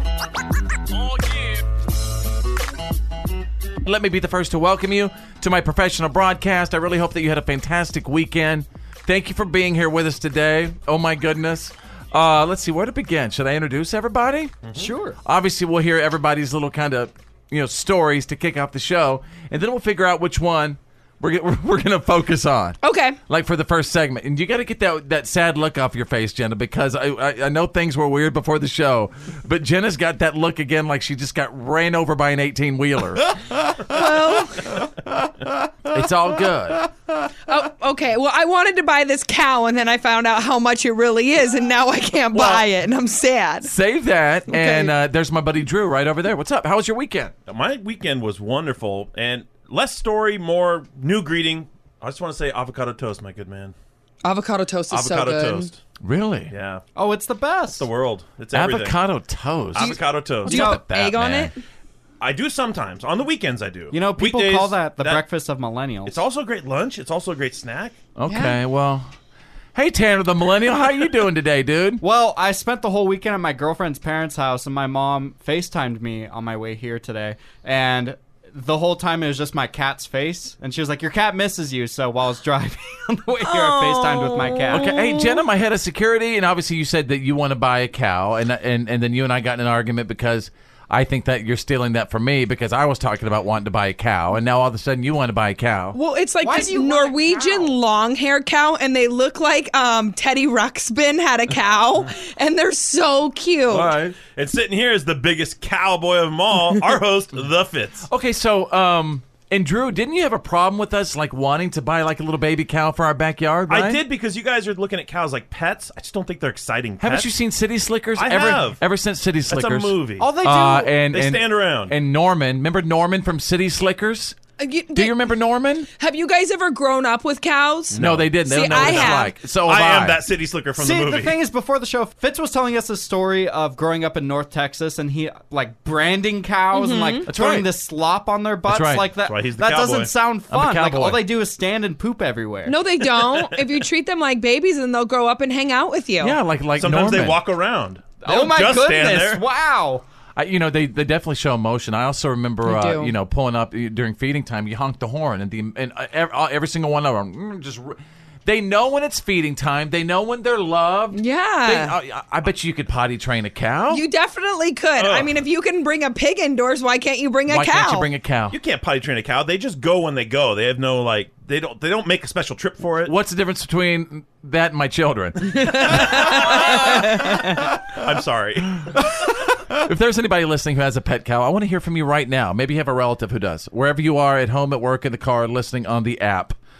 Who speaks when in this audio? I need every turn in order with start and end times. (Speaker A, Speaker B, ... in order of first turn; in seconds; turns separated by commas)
Speaker A: 3.8-14.6, Speaker B: 14.6-14.9, Speaker C: 14.7-15.2, Speaker A: 15.2-33.4, Speaker D: 22.8-23.2, Speaker D: 33.9-34.9, Speaker A: 35.9-36.9, Speaker D: 37.5-43.7, Speaker A: 42.3-42.6, Speaker A: 43.6-47.3, Speaker D: 44.5-44.9, Speaker B: 47.5-53.7, Speaker D: 54.2-55.7, Speaker B: 54.9-55.8, Speaker A: 56.0-56.5, Speaker B: 56.5-56.8, Speaker C: 57.0-57.9, Speaker B: 57.8-59.0, Speaker A: 58.5-61.5, Speaker B: 59.7-60.7, Speaker D: 60.5-61.5, Speaker C: 60.5-60.8, Speaker B: 62.2-65.2, Speaker C: 63.9-66.2, Speaker B: 66.1-68.0, Speaker A: 68.2-69.1, Speaker D: 68.3-68.6, Speaker A: 69.8-72.0, Speaker C: 72.0-85.0, Speaker D: 83.4-85.4, Speaker A: 84.7-96.0, Speaker D: 95.9-104.0, Speaker C: 96.4-97.8, Speaker A: 103.7-104.2, Speaker B: 104.0-108.1, Speaker A: 108.1-114.0, Speaker B: 113.7-117.3, Speaker A: 117.0-124.4, Speaker B: 118.2-118.8, Speaker B: 119.5-120.3, Speaker C: 120.2-121.0, Speaker B: 121.1-122.0, Speaker D: 124.6-125.2, Speaker A: 124.9-125.9, Speaker D: 126.0-129.3, Speaker B: 127.9-131.4, Speaker A: 128.0-130.2, Speaker C: 130.8-142.8, Speaker D: 136.7-137.3, Speaker A: 137.3-137.7, Speaker A: 138.7-139.1, Speaker B: 139.2-140.1, Speaker A: 140.5-141.3, Speaker D: 142.7-146.4, Speaker A: 146.2-147.4, Speaker B: 146.8-149.4, Speaker C: 148.2-150.0, Speaker A: 150.4-164.0, Speaker D: 152.6-153.2, Speaker D: 161.1-161.9, Speaker D: 163.9-168.1, Speaker B: 165.0-165.4, Speaker A: 167.5-168.6, Speaker B: 168.5-173.1, Speaker A: 173.1-177.2, Speaker D: 175.6-176.7, Speaker B: 176.0-177.3, Speaker B: 177.9-179.0, Speaker A: 179.7-186.6